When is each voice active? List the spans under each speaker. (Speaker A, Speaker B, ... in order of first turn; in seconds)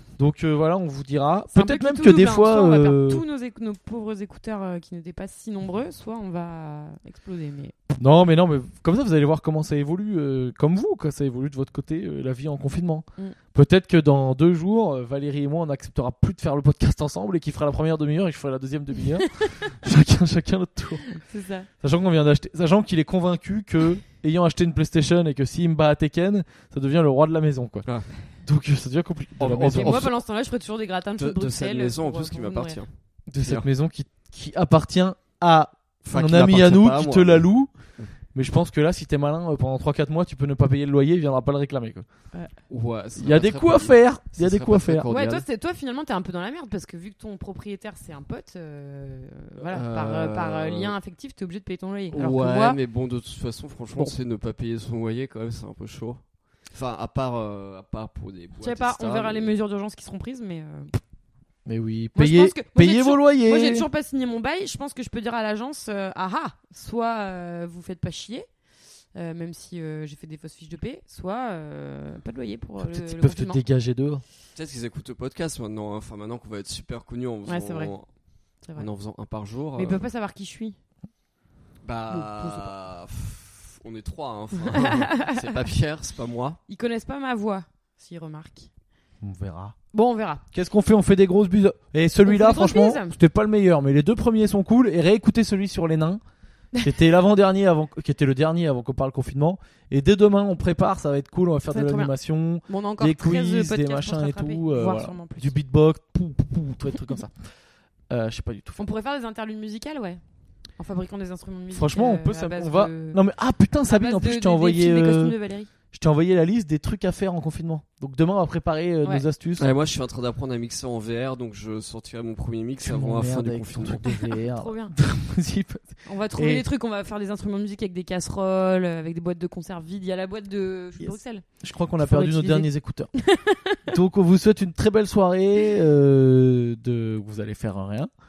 Speaker A: 0.2-3.2, 8.0-21.2, 21.8-27.9, 28.4-30.1, 33.3-37.7, 38.4-42.1, 43.2-45.1, 61.6-63.9, 72.8-74.2, 89.2-89.8, 90.5-96.2, 96.8-107.3, 108.1-108.8, 111.7-115.3, 115.9-119.7, 122.8-126.7, 131.0-133.1, 133.9-138.1
Speaker B: 1.5-7.8, 19.2-19.5, 21.1-21.7, 29.6-32.8, 45.1-52.8, 58.6-61.0, 62.1-68.5, 69.2-73.6, 77.5-77.9, 78.6-78.9, 79.8-80.8, 82.1-82.7, 84.7-85.4, 86.7-88.7, 89.9-90.4, 92.2-93.2, 101.7-102.1, 102.7-105.5, 108.8-110.2, 110.8-113.2, 113.9-115.7, 124.0-124.9, 126.0-131.4, 132.0-133.8
Speaker C: 29.4-30.2, 31.2-33.7, 36.0-37.5, 42.7-45.5, 49.6-50.9, 52.1-56.2, 56.7-59.5, 74.5-78.1, 78.8-80.0, 81.8-86.6, 119.6-124.0